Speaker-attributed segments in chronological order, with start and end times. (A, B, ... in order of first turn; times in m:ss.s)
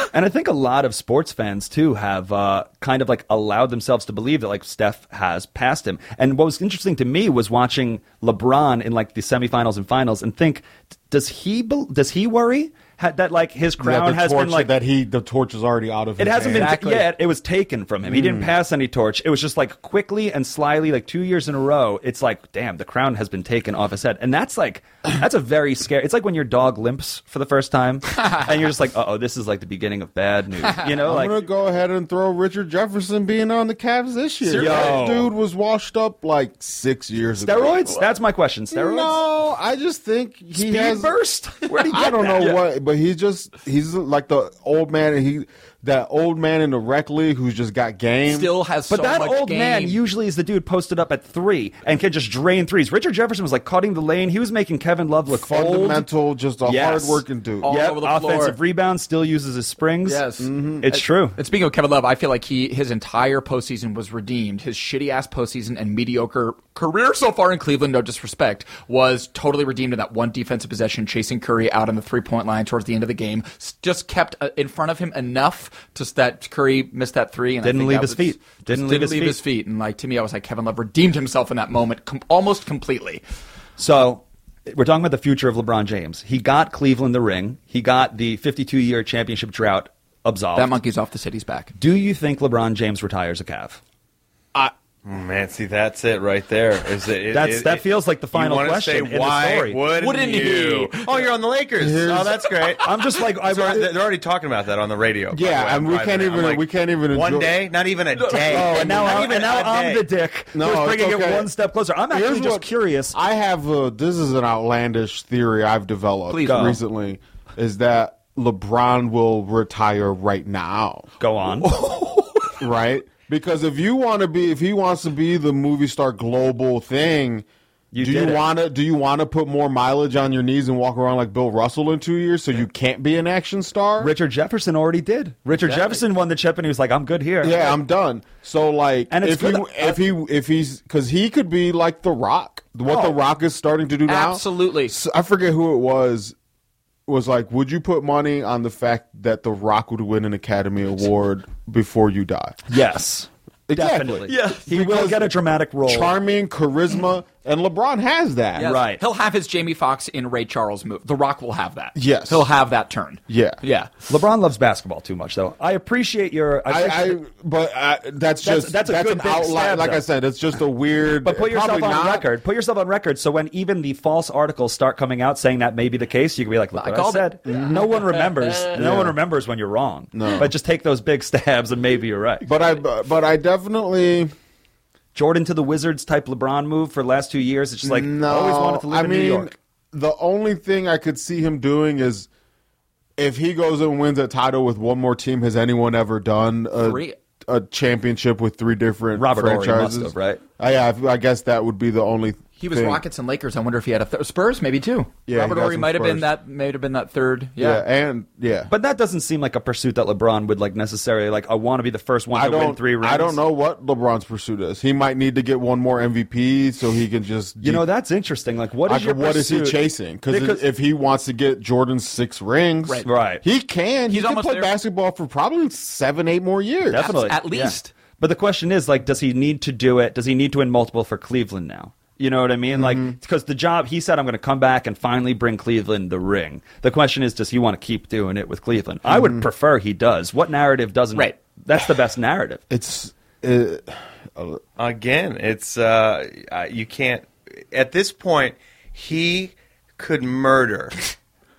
0:00.1-0:14.7 A
0:13.8-0:16.8 B
0:16.2-0:31.4 A
0:16.5-0:17.1 C
0:18.1-0:18.5 B
0:31.0-0:38.0 B
0:34.4-0:35.0 C
0:34.5-0:35.3 A
0:37.4-0:39.2 A
0:38.7-0:48.5 B
0:40.6-0:42.7 A
0:48.3-0:50.0 C
0:48.9-0:56.1 A
0:55.3-0:57.7 B
0:56.6-1:00.3 A
0:57.6-0:58.6 C
1:00.0-1:23.2 C
1:00.4-1:00.8 B
1:00.8-1:01.4 A
1:17.6-1:19.4 A
1:23.8-1:30.8 A
1:30.6-1:31.7 C
1:31.8-1:33.8 A
1:35.0-1:42.9 D
1:37.3-1:39.8 A
1:40.0-1:41.2 C
1:41.8-1:42.5 B
1:42.8-1:43.9 A
1:43.5-1:50.1 D
1:45.3-1:47.6 B
1:48.2-1:48.6 C
1:48.5-1:53.2 A
1:48.5-1:49.2 B
1:50.5-1:51.5 B
1:52.1-2:01.1 B
1:56.3-1:56.8 C
1:56.5-1:56.8 A
2:01.2-2:01.7 A
2:01.6-2:02.5 C
2:02.6-2:07.5 B
2:07.9-2:08.4 A
2:08.0-2:14.1 B
2:14.0-2:17.6 A
2:15.5-2:16.0 C
2:17.4-2:26.4 B
2:19.1-2:20.0 A
2:22.9-2:23.2 C
2:24.1-2:25.0 C
2:27.1-2:32.6 B
2:32.7-2:36.1 A
2:33.7-2:38.7 B
2:34.3-2:34.7 C
2:38.6-2:44.0 C
2:38.6-2:39.0 A
2:42.0-2:42.5 B
2:43.3-2:43.6 B
2:44.1-2:47.2 A
2:46.7-2:52.3 B
2:48.4-2:50.0 A
2:51.2-3:02.5 A
2:56.7-2:57.5 C
2:57.5-2:57.9 B
2:58.7-2:59.2 B
3:00.1-3:00.5 B
3:02.4-3:04.3 B
3:05.2-3:09.5 A
3:07.8-3:12.3 B
3:13.2-3:23.0 B
3:16.8-3:17.2 C
3:19.2-3:20.4 A
3:22.6-3:27.8 C
3:25.3-3:26.3 B
3:27.6-3:28.7 B
3:28.7-3:33.4 A
3:32.3-3:37.8 B
3:37.6-3:40.6 A
3:38.9-3:47.2 B
3:43.1-3:43.4 A
3:44.1-3:44.8 C
3:46.9-4:02.6 A
3:47.0-3:47.9 C
3:52.7-3:53.2 B
3:59.1-3:59.5 B
4:02.7-4:04.6 B
4:04.8-4:11.0 D